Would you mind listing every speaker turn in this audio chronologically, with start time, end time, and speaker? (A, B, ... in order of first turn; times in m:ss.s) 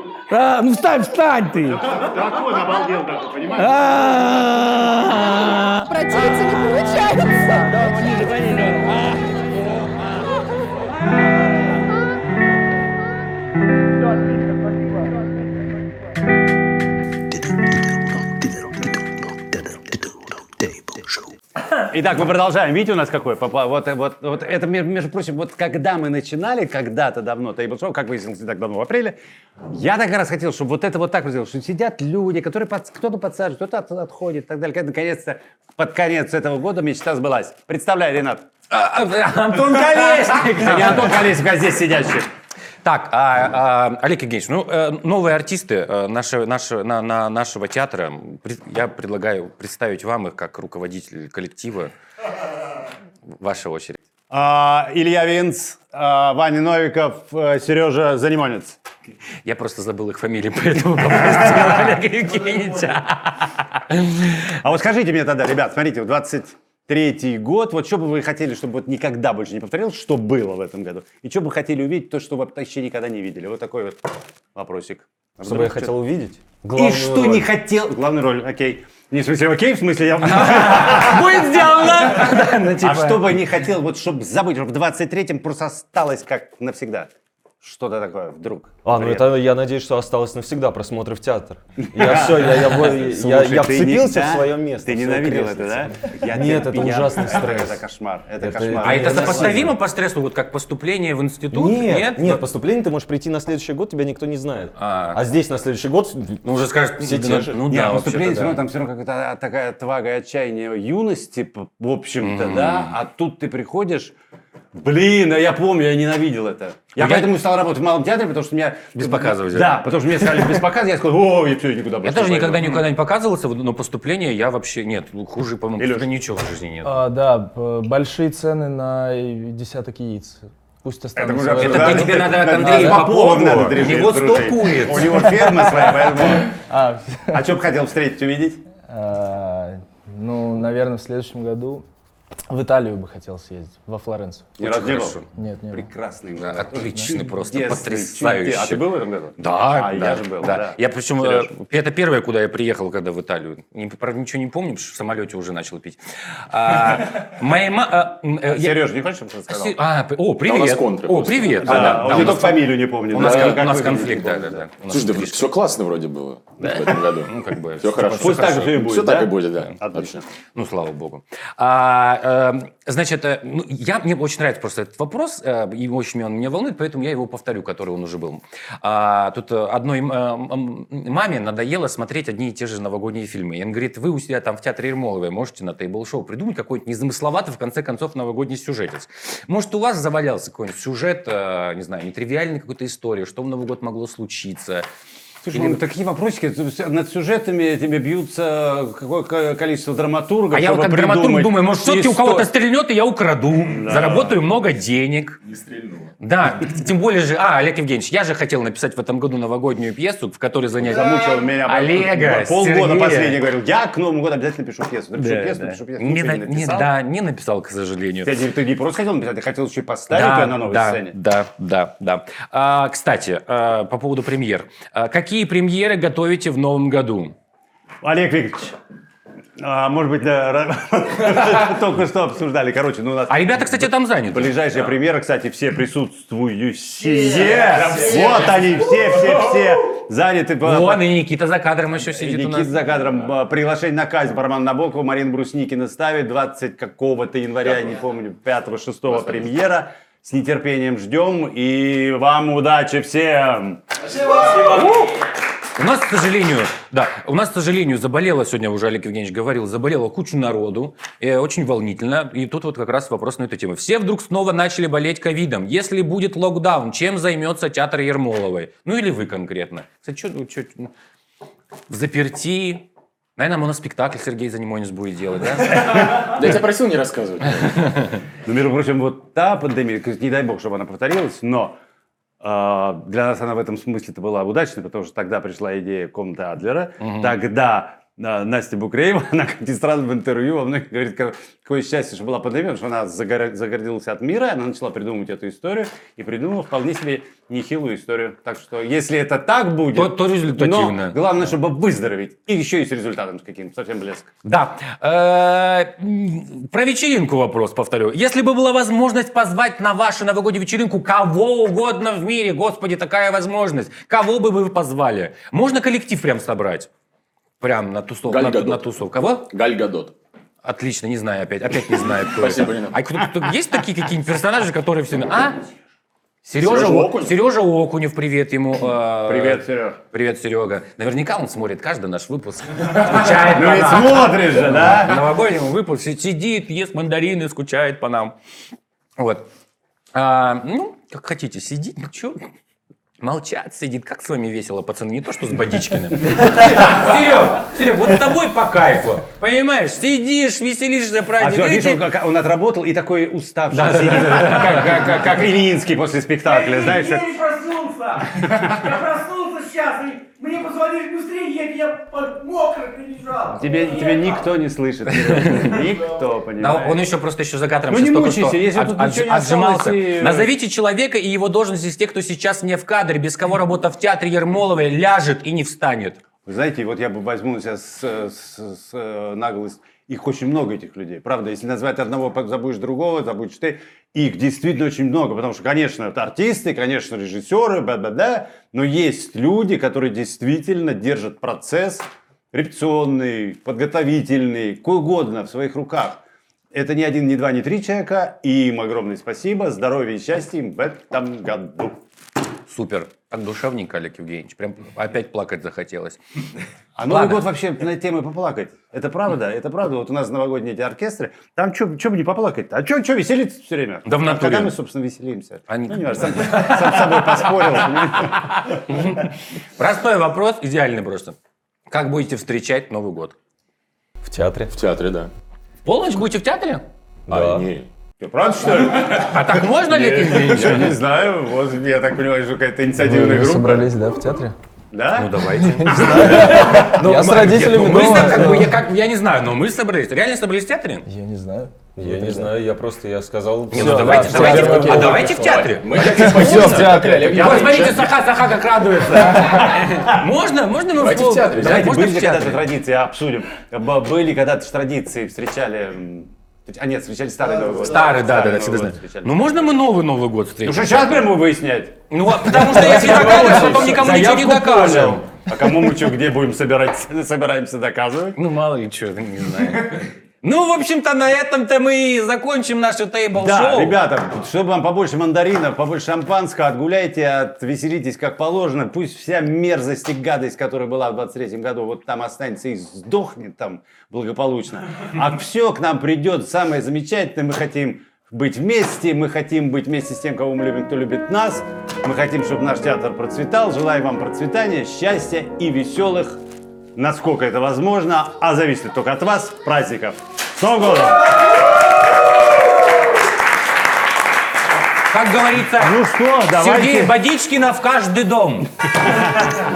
0:00.3-0:01.8 A
0:01.9-0:03.7 B
0:03.6-0:05.6 A
0:05.8-0:07.9 C
0:07.8-0:09.3 A
0:21.9-0:29.2 B
0:29.7-0:38.5 B
0:38.7-0:41.3 D
0:39.5-0:42.3 B
0:42.8-0:51.9 D
0:53.4-0:54.0 D
0:54.3-0:58.8 B
0:59.4-1:04.4 D
1:04.6-1:15.9 B
1:15.4-1:17.5 E
1:16.7-1:27.1 B
1:20.2-1:23.4 D
1:27.6-1:29.3 B
1:28.8-1:37.8 E
1:31.8-1:39.7 B
1:38.4-1:39.8 E
1:38.8-1:42.4 D
1:41.5-1:46.4 E
1:44.8-1:45.2 D
1:46.4-1:48.6 D
1:47.0-1:47.6 E
1:47.6-1:54.2 B
1:52.2-1:52.9 D
1:54.7-2:02.8 B
1:57.0-1:57.3 D
1:59.0-1:59.8 D
2:02.0-2:07.0 D
2:05.8-2:06.1 B
2:06.8-2:13.1 F
2:11.2-2:16.6 B
2:11.6-2:15.3 D
2:16.6-2:17.5 F
2:17.3-2:18.6 B
2:18.9-2:21.8 F
2:22.5-2:24.6 F
2:24.6-2:31.5 B
2:24.6-2:25.2 D
2:25.3-2:25.9 F
2:26.4-2:28.8 D
2:29.4-2:36.0 D
2:36.5-2:38.9 D
2:38.5-2:39.8 B
2:39.5-2:45.5 D
2:40.4-2:42.4 G
2:41.6-2:44.6 B
2:43.2-2:43.6 G
2:44.9-2:50.2 G
2:47.2-2:48.7 D
2:48.1-2:50.2 B
2:50.6-3:14.9 D
3:15.4-3:22.5 B
3:20.5-3:25.4 D
3:23.7-3:24.4 B
3:25.4-3:26.1 G
3:26.2-3:33.4 D
3:30.8-3:36.9 B
3:35.2-3:38.4 D
3:38.2-3:41.2 B
3:40.1-3:47.3 D
3:48.0-3:48.8 B
3:49.6-4:01.0 B
3:53.3-3:55.0 D
4:00.6-4:02.7 D
4:02.1-4:13.8 B
4:14.4-4:15.1 D
4:15.8-4:30.9 D
4:31.9-4:32.8 D
4:33.4-4:35.8 D
4:36.2-4:37.8 G
4:37.6-4:38.1 D
4:38.5-4:41.8 B
4:42.4-5:04.3 B
4:47.0-4:47.3 D
4:59.9-5:01.5 D
5:04.4-5:16.9 D
5:17.6-5:19.5 D
5:18.2-5:18.8 G
5:19.5-5:20.1 G
5:20.6-5:25.6 D
5:22.3-5:23.0 G
5:26.4-5:38.4 D
5:26.6-5:27.3 G
5:29.3-5:30.0 B
5:33.4-5:35.2 B
5:39.2-5:39.5 D
5:40.1-5:42.4 D
5:43.2-5:52.0 D
5:51.4-5:57.3 B
5:53.7-5:55.1 D
5:56.4-6:04.1 A
6:03.6-6:07.0 B
6:05.2-6:05.8 D
6:06.6-6:16.2 D
6:07.9-6:10.5 B
6:16.5-6:36.2 B
6:36.7-6:42.0 B
6:42.7-6:46.2 D
6:47.0-6:58.5 B
6:47.1-6:47.5 D
6:54.1-6:54.8 D
6:55.7-7:01.4 D
7:01.9-7:03.4 D
7:04.2-7:04.8 E
7:04.7-7:05.3 G
7:05.8-7:06.8 D
7:07.3-7:07.9 G
7:07.3-7:07.7 E
7:08.2-7:09.4 B
7:09.0-7:11.0 D
7:10.3-7:10.8 G
7:10.5-7:13.9 B
7:13.0-7:14.6 F
7:14.9-7:15.3 B
7:15.2-7:21.0 D
7:15.9-7:16.5 B
7:16.1-7:18.7 E
7:17.1-7:18.6 F
7:21.1-7:22.5 F
7:22.0-7:27.4 E
7:23.7-7:32.6 D
7:23.7-7:27.7 F
7:24.3-7:28.2 G
7:31.0-7:31.8 G
7:31.6-7:39.4 B
7:37.8-7:41.3 D
7:40.6-7:48.4 B
7:42.1-7:45.2 D
7:48.4-7:54.0 D
7:53.4-8:16.4 B
8:17.0-8:21.3 B
8:25.1-8:28.7 D
8:25.8-8:27.1 B